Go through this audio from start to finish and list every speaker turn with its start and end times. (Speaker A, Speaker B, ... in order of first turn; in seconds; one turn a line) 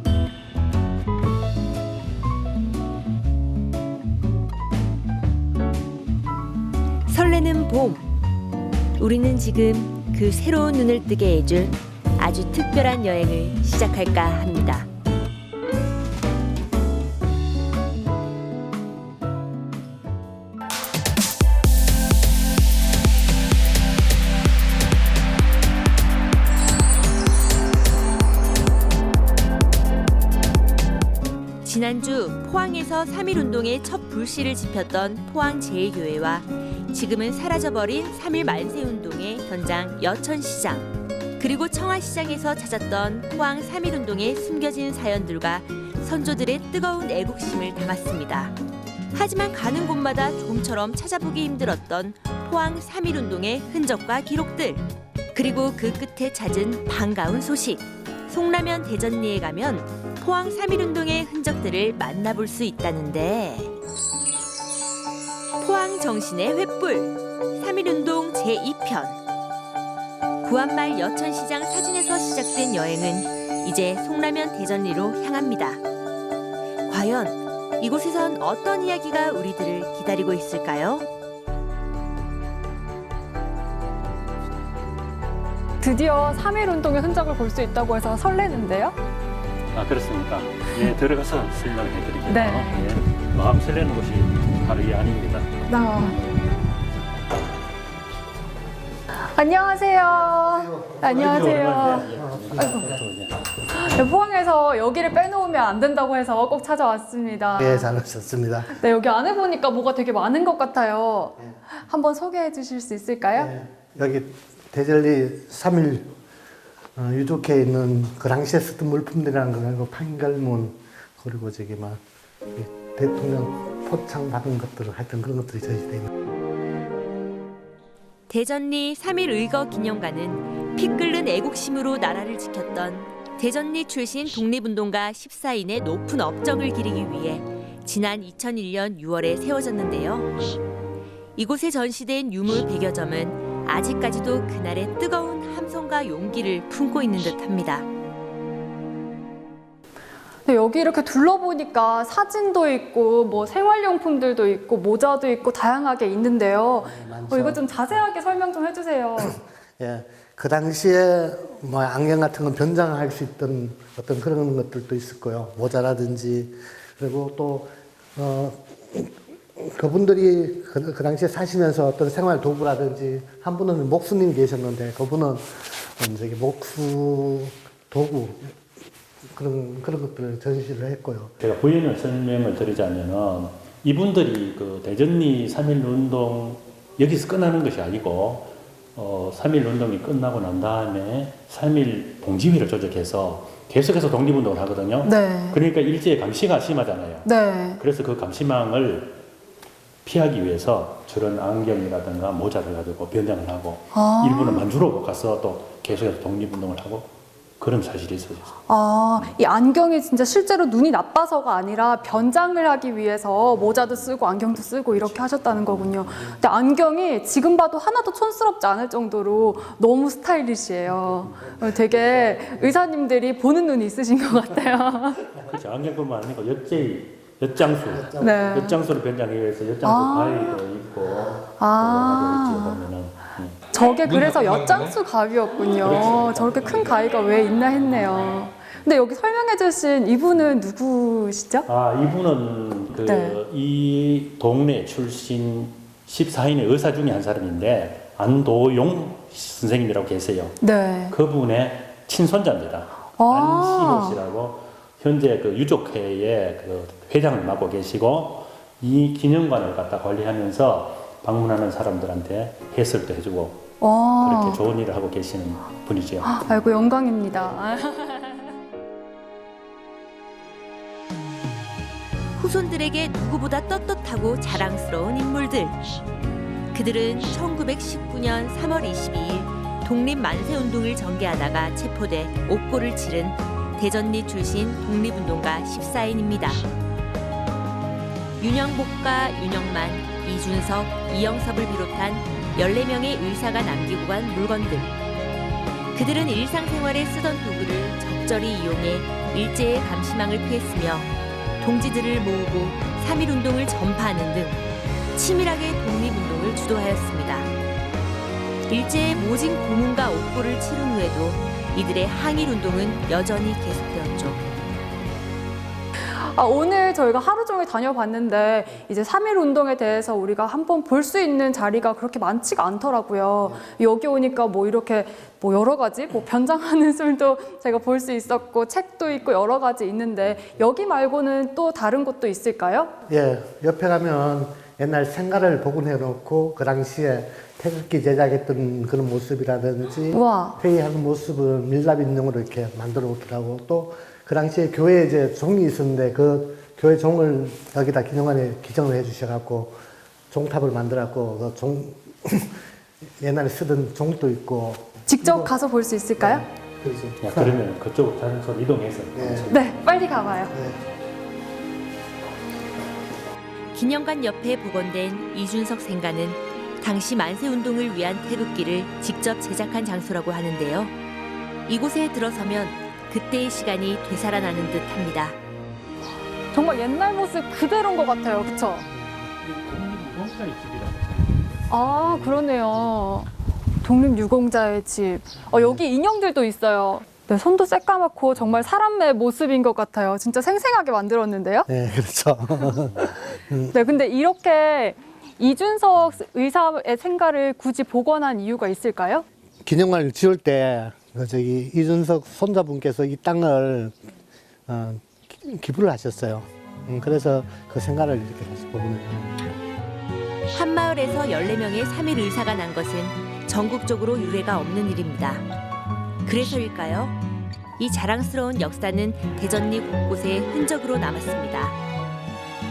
Speaker A: 7.1-8.1
Speaker A: 9.0-14.9
Speaker A: 31.6-48.6
Speaker A: 49.1-63.7
Speaker A: 65.6-69.2
Speaker A: 70.4-75.8
Speaker A: 76.9-81.1
Speaker B: 85.8-89.0
Speaker C: 89.7-95.7
Speaker B: 92.3-92.9
Speaker B: 95.7-96.2
Speaker B: 99.2-103.0
Speaker D: 100.5-102.8
Speaker C: 101.0-103.4
Speaker B: 103.7-107.9
Speaker D: 107.6-108.7
Speaker B: 108.7-113.5
Speaker D: 113.4-116.1
Speaker D: 117.0-122.0
Speaker D: 122.5-126.1
Speaker A: 128.3-140.4
Speaker A: 141.4-147.9
Speaker B: 150.4-159.4
Speaker D: 156.8-158.0
Speaker D: 159.2-178.6
Speaker D: 179.3-181.3
Speaker C: 181.4-197.3
Speaker B: 195.0-195.6
Speaker B: 197.2-197.8
Speaker C: 197.8-199.2
Speaker C: 200.0-208.6
Speaker B: 203.9-204.7
Speaker B: 208.7-225.3
Speaker C: 215.3-216.2
Speaker D: 222.4-222.6
Speaker C: 225.4-233.6
Speaker D: 227.9-228.7
Speaker B: 228.2-228.8
Speaker B: 229.8-230.6
Speaker B: 231.6-232.8
Speaker B: 233.7-241.7
Speaker C: 235.8-236.9
Speaker C: 241.7-250.6
Speaker B: 243.1-243.4
Speaker B: 250.6-251.2
Speaker C: 251.1-263.7
Speaker B: 253.2-254.2
Speaker B: 263.8-264.6
Speaker C: 264.2-266.4
Speaker B: 266.2-268.5
Speaker A: 272.4-275.8
Speaker A: 276.7-286.7
Speaker A: 288.4-294.9
Speaker A: 295.9-304.6
Speaker A: 305.1-307.5
Speaker A: 308.7-314.4
Speaker B: 316.1-332.9
Speaker D: 333.1-349.8
Speaker B: 340.1-340.6
Speaker D: 350.3-352.6
Speaker D: 353.2-355.5
Speaker B: 355.1-356.4
Speaker D: 356.2-357.6
Speaker C: 357.2-359.8
Speaker D: 359.1-359.5
Speaker B: 359.5-360.5
Speaker D: 360.5-360.8
Speaker A: 363.7-370.9
Speaker A: 371.7-375.4
Speaker B: 376.5-378.9
Speaker C: 379.0-382.2
Speaker B: 381.7-383.3
Speaker B: 383.8-391.7
Speaker D: 391.7-393.8
Speaker B: 393.7-399.2
Speaker D: 399.6-404.0
Speaker D: 404.7-409.5
Speaker A: 410.5-415.5
Speaker A: 416.2-417.1
Speaker A: 417.8-421.8